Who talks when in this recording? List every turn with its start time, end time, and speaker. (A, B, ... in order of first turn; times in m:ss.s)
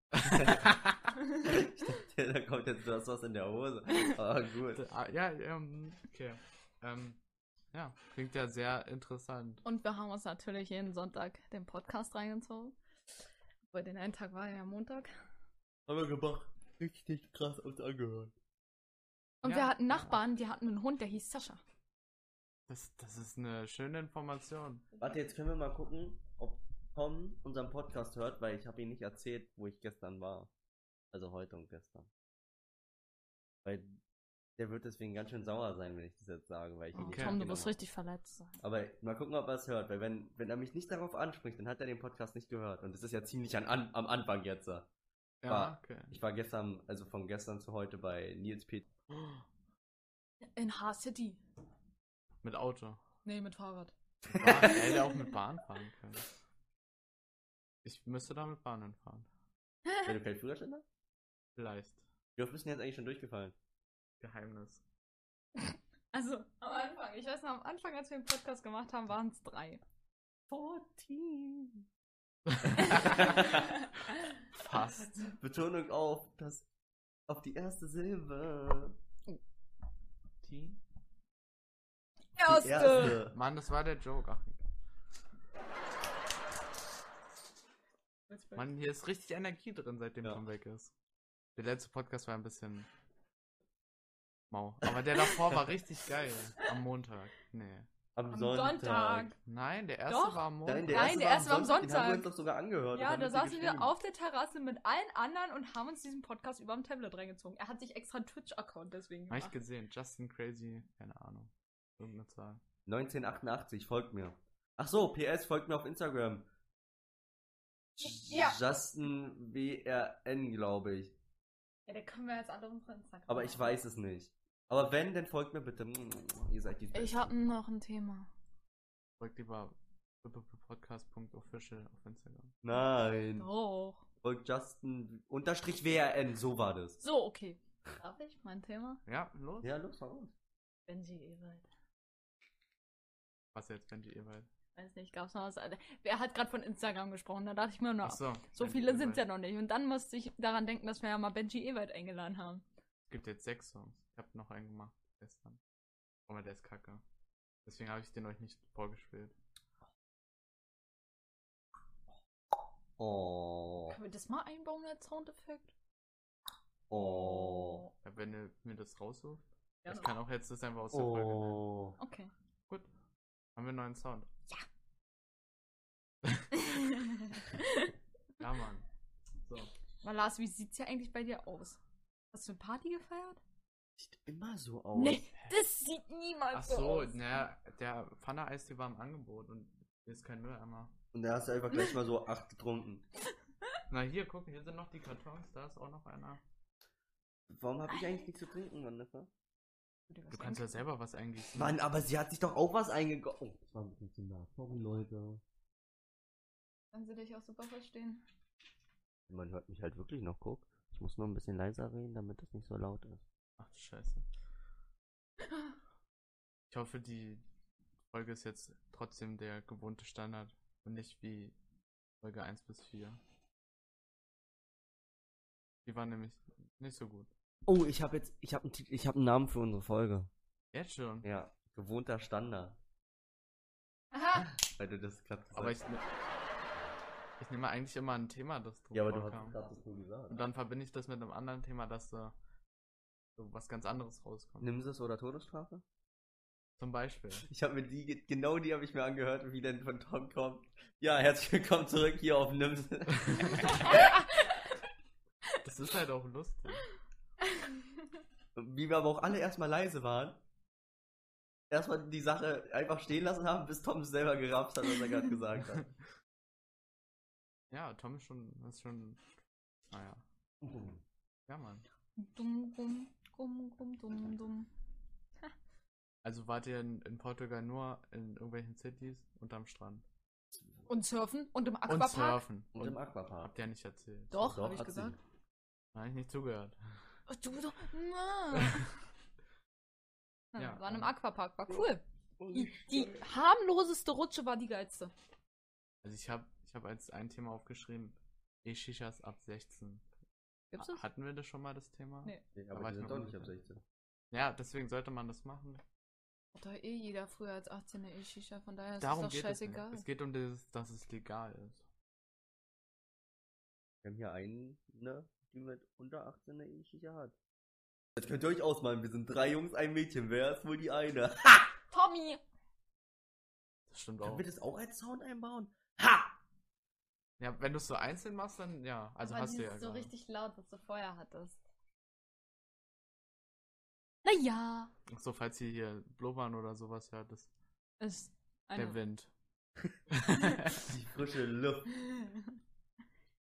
0:00.2-0:01.0 A
0:00.2-0:00.7 B
0:01.2-0:01.7 C
0:01.4-0:04.8 B
0:04.7-0:07.2 A
0:07.7-0:09.6 A
0:09.6-0:12.8 C
0:13.7-0:15.1 C
0:15.9-0:18.3 B
0:19.4-0:21.6 C
0:19.4-0:20.1 A
0:22.7-0:24.8 A
0:25.0-0:30.5 B
0:31.1-0:32.1 B
0:33.6-0:34.0 B
0:34.6-0:37.7 B
0:36.9-0:38.6 C
0:37.0-0:37.4 A
0:38.6-0:44.9 B
0:45.4-0:46.1 A
0:45.5-0:48.9 B
0:49.1-0:49.4 A
0:50.4-0:51.4 C
0:52.4-0:53.0 A
0:53.2-0:55.3 C
0:54.3-0:56.3 A
0:57.8-0:59.3 A
0:59.8-1:00.1 C
1:00.0-1:00.8 B
1:01.6-1:02.0 A
1:02.4-1:03.5 B
1:04.2-1:04.8 A
1:05.6-1:09.8 C
1:10.5-1:11.8 B
1:12.5-1:13.5 A
1:12.6-1:13.7 B
1:12.8-1:14.1 C
1:14.5-1:15.3 A
1:15.3-1:16.6 B
1:17.3-1:19.0 B
1:20.4-1:20.8 A
1:22.4-1:23.2 C
1:22.4-1:23.4 B
1:23.0-1:24.6 A
1:28.3-1:28.7 C
1:28.6-1:30.9 A
1:31.6-1:32.9 A
1:34.5-1:37.9 A
1:38.1-1:39.3 B
1:38.3-1:39.4 C
1:39.4-1:41.2 A
1:40.1-1:42.3 C
1:40.6-1:43.9 B
1:42.9-1:49.5 C
1:49.3-1:52.6 A
1:52.8-1:56.5 B
1:58.0-2:01.2 B
1:58.2-1:58.6 C
2:01.9-2:03.7 C
2:03.3-2:07.3 B
2:06.9-2:08.3 C
2:09.2-2:12.5 A
2:12.6-2:13.5 B
2:13.4-2:14.0 C
2:14.2-2:17.0 B
2:17.0-2:19.0 C
2:19.0-2:19.7 A
2:19.6-2:20.3 B
2:20.9-2:21.6 C
2:23.5-2:24.5 A
2:24.7-2:32.6 C
2:28.0-2:29.2 A
2:33.1-2:35.6 A
2:36.3-2:37.0 A
2:37.6-2:39.3 A
2:43.0-2:44.0 B
2:43.9-2:45.7 C
2:46.9-2:47.8 B
2:47.0-2:47.9 C
2:48.0-2:51.6 A
2:49.8-2:50.1 C
2:50.9-2:52.0 B
2:52.0-2:52.3 C
2:53.6-2:54.3 A
2:56.5-2:57.9 C
2:58.4-2:58.8 A
3:00.0-3:01.8 C
3:02.3-3:03.4 C
3:04.0-3:05.3 B
3:04.9-3:07.2 C
3:06.5-3:10.9 A
3:11.1-3:13.1 B
3:13.9-3:16.4 A
3:17.5-3:19.3 B
3:20.1-3:20.8 C
3:20.3-3:21.8 A
3:21.5-3:25.4 B
3:26.9-3:28.2 C
3:29.3-3:33.2 B
3:33.6-3:34.2 A
3:36.7-3:37.4 A
3:38.1-3:41.6 A
3:42.2-3:43.2 A
3:45.8-3:47.3 A
3:47.6-3:50.3 B
3:50.7-3:51.3 A
3:51.2-3:52.8 B
3:54.1-3:54.4 C
3:54.3-3:55.8 B
3:55.5-3:56.0 A
3:57.4-3:59.6 A
3:58.9-4:00.4 B
4:00.3-4:02.3 A
4:03.4-4:04.7 A
4:04.6-4:05.8 B
4:06.8-4:07.5 A
4:07.5-4:14.0 B
4:13.3-4:13.6 A
4:13.8-4:14.3 C
4:15.6-4:16.9 A
4:18.5-4:20.4 B
4:21.7-4:25.9 B
4:27.7-4:29.2 A
4:29.9-4:30.2 A
4:30.6-4:31.0 B
4:31.5-4:31.8 A
4:32.2-4:34.7 C
4:36.2-4:40.0 A
4:40.9-4:42.4 C
4:41.9-4:44.7 A
4:42.7-4:43.5 B
4:44.3-4:45.2 C
4:44.4-4:45.2 B
4:45.9-4:46.8 A
4:47.3-4:48.9 C
4:50.5-4:55.1 C
4:50.6-4:51.1 A
4:52.4-4:53.2 B
4:56.0-5:00.0 A
5:00.7-5:01.0 C
5:00.8-5:03.5 A
5:02.5-5:03.8 B
5:04.3-5:05.8 A
5:06.5-5:10.0 C
5:09.0-5:11.8 A
5:14.0-5:17.3 B
5:18.1-5:21.7 B
5:21.9-5:22.4 C
5:23.9-5:24.4 A
5:24.2-5:26.4 B
5:27.4-5:30.1 A
5:29.2-5:31.6 C
5:34.2-5:34.9 C
5:35.1-5:37.5 A
5:38.0-5:39.0 C
5:38.8-5:39.3 A
5:40.1-5:40.9 A
5:40.7-5:41.9 B
5:42.0-5:42.5 C